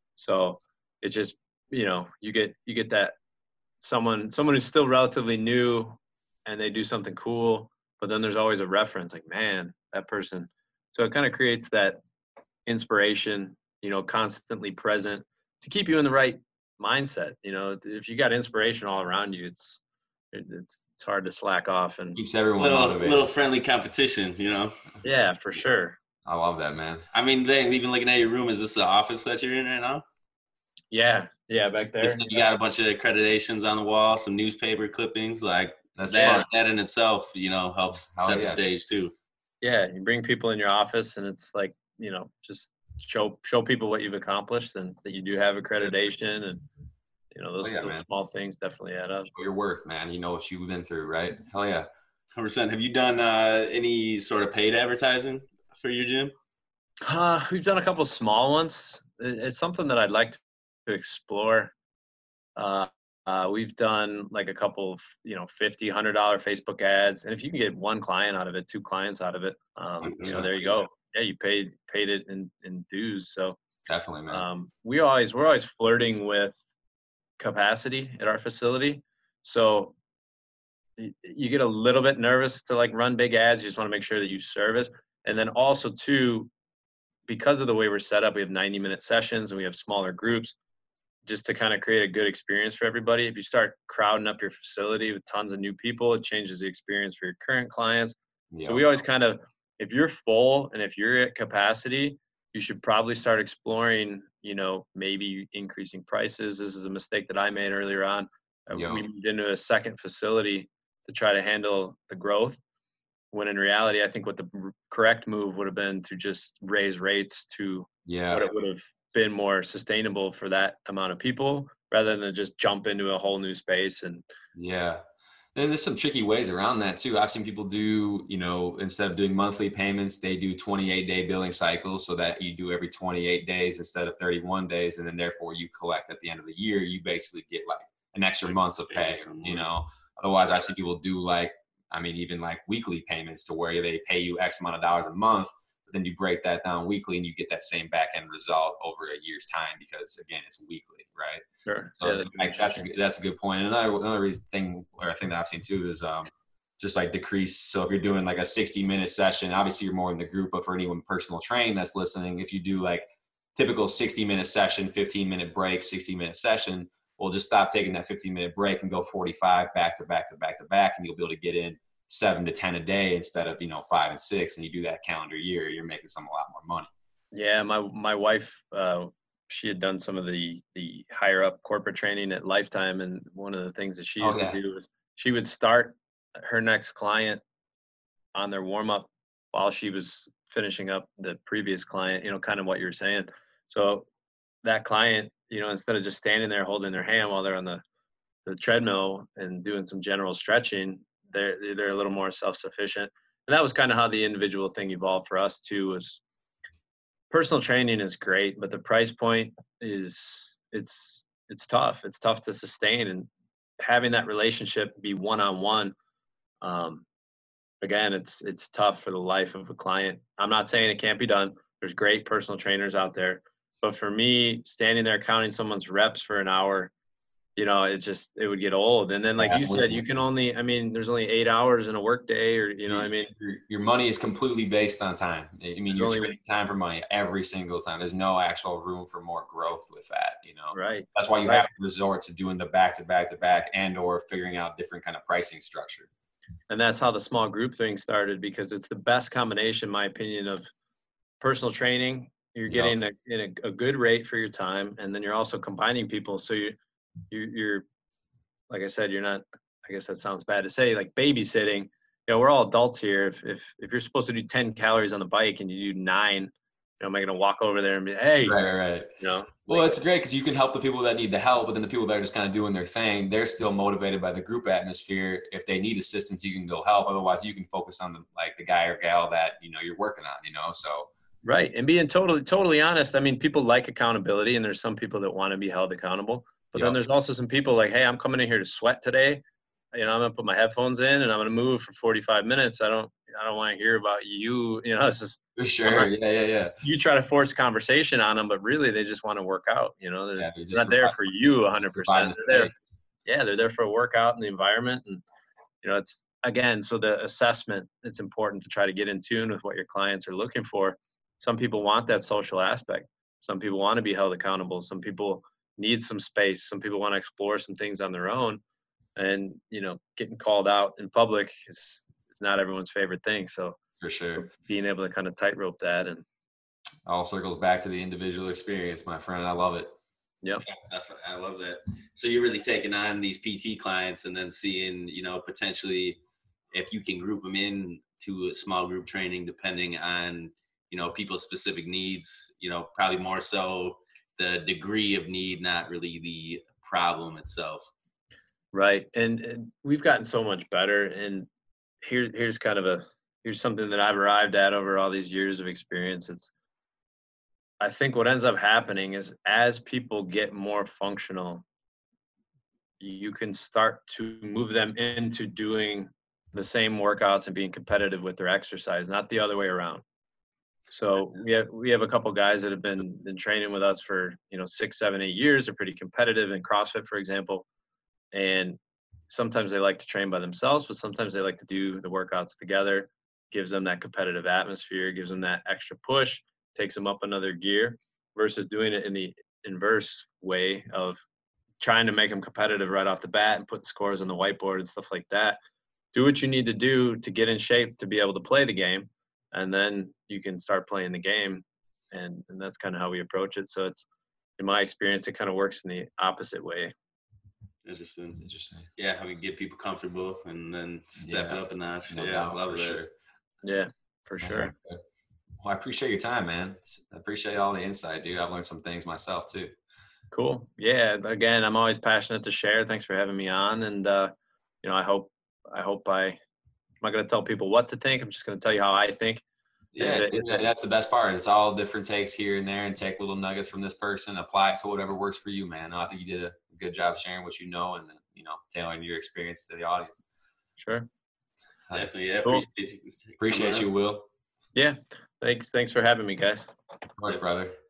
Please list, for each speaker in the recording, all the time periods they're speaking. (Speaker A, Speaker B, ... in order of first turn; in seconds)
Speaker A: 0.2-3.1, 3.8-12.0, 12.7-19.8, 20.3-22.2, 25.0-26.0, 30.9-32.5, 36.2-36.4, 39.6-46.6, 47.3-49.3, 57.0-61.7, 62.6-73.6, 74.3-76.6, 77.4-80.0, 81.0-86.5, 87.3-90.6, 91.2-112.6, 113.3-124.2, 151.7-152.9, 177.3-187.4, 188.3-194.1, 194.6-197.8, 198.5-206.2, 207.3-215.9, 216.6-217.1, 217.8-226.9, 227.6-233.3, 235.9-236.4, 240.7-241.7, 246.7-250.7, 251.4-256.8, 257.3-257.9, 258.7-268.6, 269.2-270.0, 281.4-296.1, 296.8-302.7, 303.3-305.2, 305.8-318.6, 319.2-323.8, 324.4-326.2, 348.7-351.5, 352.0-356.5, 357.8-361.6, 363.0-370.0, 370.9-377.7, 378.3-391.2, 391.8-395.6, 396.1-404.1, 404.6-406.9, 413.6-414.7, 420.3-424.3, 424.8-426.4, 427.0-429.4, 430.0-430.6, 440.8-441.1, 444.8-446.7
Speaker B: 22.2-23.3, 26.2-27.1, 36.0-36.5, 38.2-38.6, 47.6-48.0, 49.3-51.9, 70.2-70.5, 73.9-74.4, 98.5-99.0, 108.7-109.0, 118.1-118.5, 124.5-125.0, 125.5-151.4, 152.0-156.3, 156.8-176.9, 184.2-184.6, 229.4-230.0, 232.9-246.1, 252.7-252.9, 268.4-281.1, 295.6-296.8, 300.4-301.2, 301.9-302.7, 324.0-324.5, 327.1-329.9, 408.4-408.9, 411.2-413.1, 414.4-415.0, 415.6-419.7, 429.9-440.2, 443.4-444.3, 447.2-447.8
Speaker C: 22.6-24.8, 27.1-30.0, 32.0-39.1, 52.3-56.3, 70.1-70.4, 138.9-139.7, 330.7-336.2, 336.7-347.9, 407.9-408.4, 409.0-413.0, 441.9-443.9